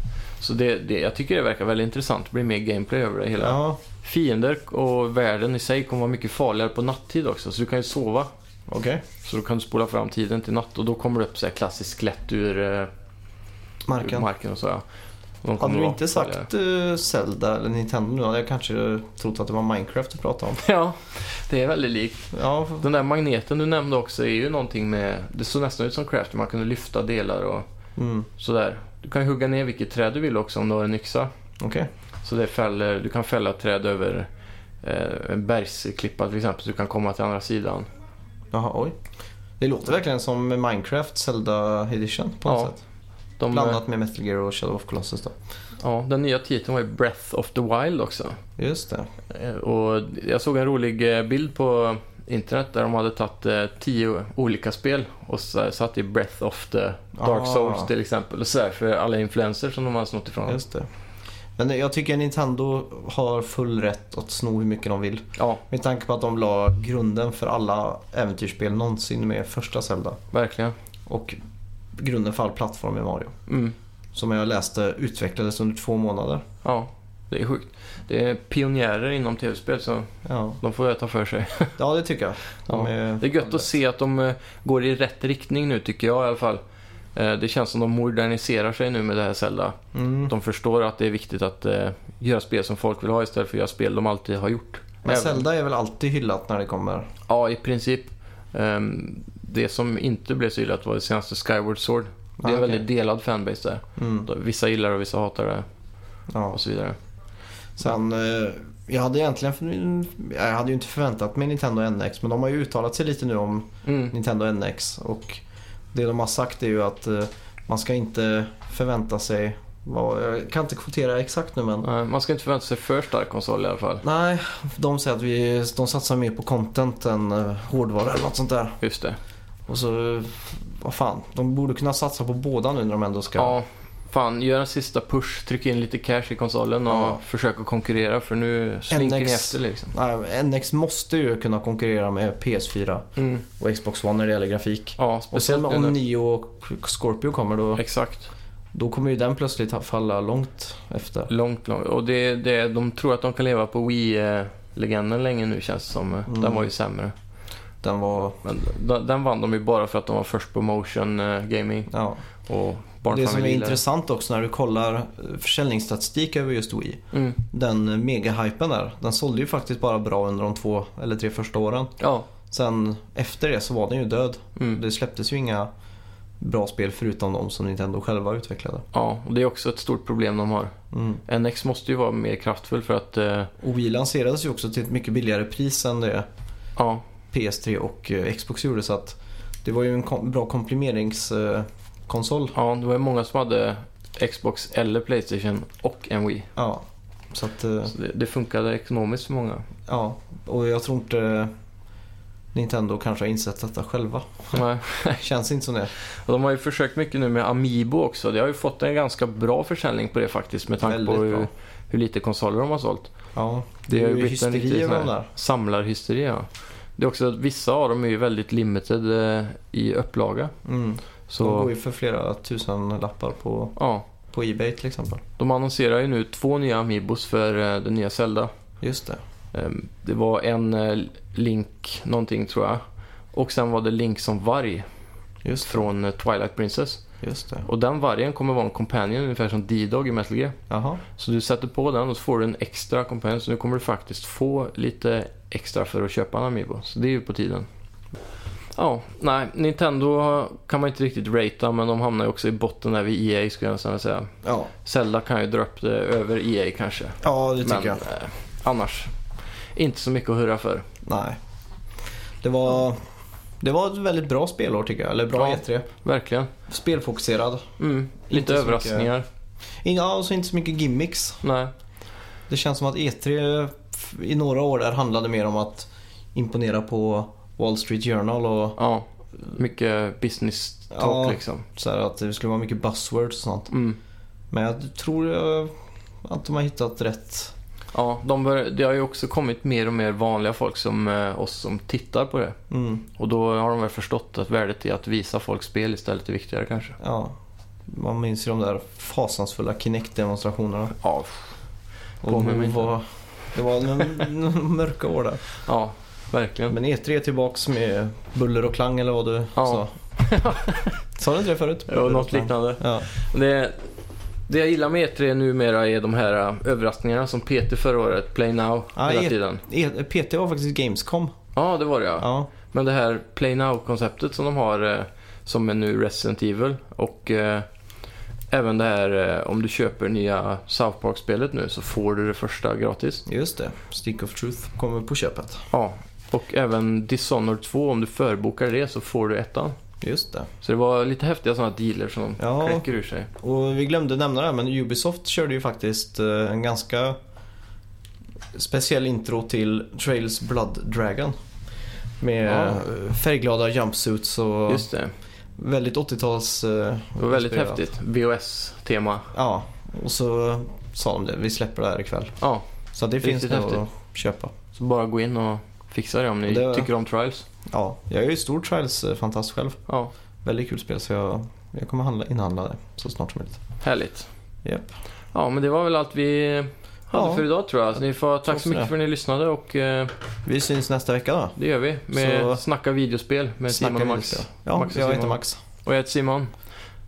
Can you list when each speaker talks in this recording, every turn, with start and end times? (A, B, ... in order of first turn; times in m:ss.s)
0:00.4-0:08.3 A
0:03.4-0:03.8 B
0:08.7-0:09.0 B
0:09.2-0:12.9 A
0:13.9-0:14.3 B
0:14.0-0:14.8 A
0:15.4-0:16.5 A
0:15.6-0:20.6 B
0:20.6-0:27.7 A
0:22.3-0:22.9 B
0:28.0-0:28.3 B
0:28.4-0:31.3 A
0:31.6-0:31.9 B
0:32.2-0:34.3 A
0:34.8-0:37.9 A
0:38.5-0:39.0 B
0:39.6-0:42.8 B
0:42.5-0:42.7 A
0:43.4-0:43.8 A
0:43.5-0:45.3 B
0:45.8-0:48.4 A
0:48.6-0:49.1 B
0:49.3-1:00.6 A
0:57.2-0:57.9 B
1:00.4-1:00.9 B
1:01.6-1:10.2 B
1:10.3-1:10.7 A
1:11.1-1:11.4 B
1:12.0-1:13.4 B
1:13.5-1:13.7 A
1:14.1-1:16.4 B
1:16.6-1:21.8 A
1:20.2-1:20.6 B
1:21.8-1:23.7 B
1:22.7-1:26.6 A
1:27.1-1:35.4 A
1:29.9-1:30.3 B
1:35.0-1:37.1 B
1:37.3-1:45.7 A
1:42.4-1:42.8 B
1:44.0-1:44.3 B
1:46.3-1:46.6 B
1:46.5-1:47.0 A
1:47.8-1:55.4 B
1:53.8-1:54.1 A
1:55.9-2:01.9 B
2:01.8-2:04.0 A
2:04.0-2:08.8 B
2:08.8-2:09.2 A
2:09.7-2:13.6 B
2:13.4-2:19.9 A
2:16.9-2:17.2 B
2:18.9-2:27.8 B
2:23.2-2:23.4 A
2:25.0-2:26.0 A
2:27.8-2:28.3 A
2:28.7-2:31.3 B
2:31.3-2:37.1 A
2:36.3-2:36.7 B
2:37.8-2:38.4 B
2:38.4-2:41.9 A
2:41.9-2:42.2 B
2:42.4-2:43.8 A
2:43.1-2:55.7 B
2:47.1-2:47.4 A
2:52.0-2:52.3 A
2:56.4-2:58.9 B
2:58.9-3:00.7 A
3:00.9-3:01.2 B
3:01.3-3:03.5 A
3:03.6-3:06.3 B
3:06.8-3:07.0 A
3:07.3-3:12.6 B
3:12.6-3:16.5 A
3:16.6-3:18.0 B
3:17.9-3:19.7 A
3:19.9-3:21.5 B
3:22.5-3:25.9 B
3:24.5-3:25.2 A
3:26.0-3:33.1 A
3:30.8-3:31.5 B
3:33.3-3:35.3 B
3:33.9-3:40.5 A
3:40.6-3:45.2 B
3:41.3-3:41.7 A
3:43.8-3:44.0 A
3:45.4-3:48.5 A
3:48.8-3:49.2 B
3:49.5-3:54.9 A
3:55.4-3:55.8 B
3:55.6-3:57.1 A
3:57.2-3:57.7 B
3:57.6-4:00.6 A
4:00.7-4:01.0 B
4:01.1-4:07.7 A
4:08.7-4:14.3 A
4:14.4-4:14.7 B
4:14.8-4:19.1 A
4:17.2-4:18.1 B
4:19.8-4:20.9 A
4:21.0-4:21.4 B
4:22.4-4:23.0 B
4:23.6-4:25.9 B
4:25.4-4:26.5 A
4:26.7-4:27.7 B
4:27.8-4:29.3 A
4:28.3-4:29.1 B
4:29.8-4:31.4 B
4:31.4-4:31.7 A
4:32.5-4:38.8 B
4:38.8-4:41.6 A
4:40.9-4:43.7 B
4:43.7-4:44.0 A
4:44.5-4:47.5 B
4:47.9-4:52.6 A
4:52.7-4:53.0 B
4:53.1-4:57.0 A
4:57.0-4:57.4 B
4:57.9-5:01.0 B
5:01.0-5:01.5 A
5:02.2-5:05.4 B
5:02.3-5:02.9 A
5:05.6-5:06.8 A
5:06.7-5:09.9 B
5:09.6-5:11.0 A
5:11.2-5:13.1 B
5:11.9-5:13.8 A
5:14.5-5:19.6 A
5:19.0-5:21.3 B
5:21.6-5:27.7 A
5:22.2-5:22.5 B
5:28.5-5:33.2 A
5:33.3-5:35.7 B
5:35.7-5:39.8 A
5:40.0-5:40.5 B
5:40.6-5:43.3 A
5:42.4-5:42.8 B
5:43.4-5:47.2 B
5:48.5-5:51.3 B
5:52.2-5:54.9 B
5:52.4-5:52.8 A
5:54.7-5:55.1 A
5:55.6-5:57.8 B
5:57.2-5:59.3 A
5:59.3-6:02.4 B
6:02.9-6:04.5 B
6:03.2-6:03.8 A
6:04.7-6:07.4 A
6:06.5-6:06.9 B
6:07.7-6:09.8 B
6:10.4-6:13.6 B
6:13.8-6:14.3 A
6:14.6-6:15.0 B
6:15.3-6:20.1 A
6:17.1-6:17.4 B
6:18.4-6:18.9 B
6:20.4-6:21.6 B
6:21.6-6:26.5 A
6:22.1-6:22.6 B
6:23.7-6:25.6 B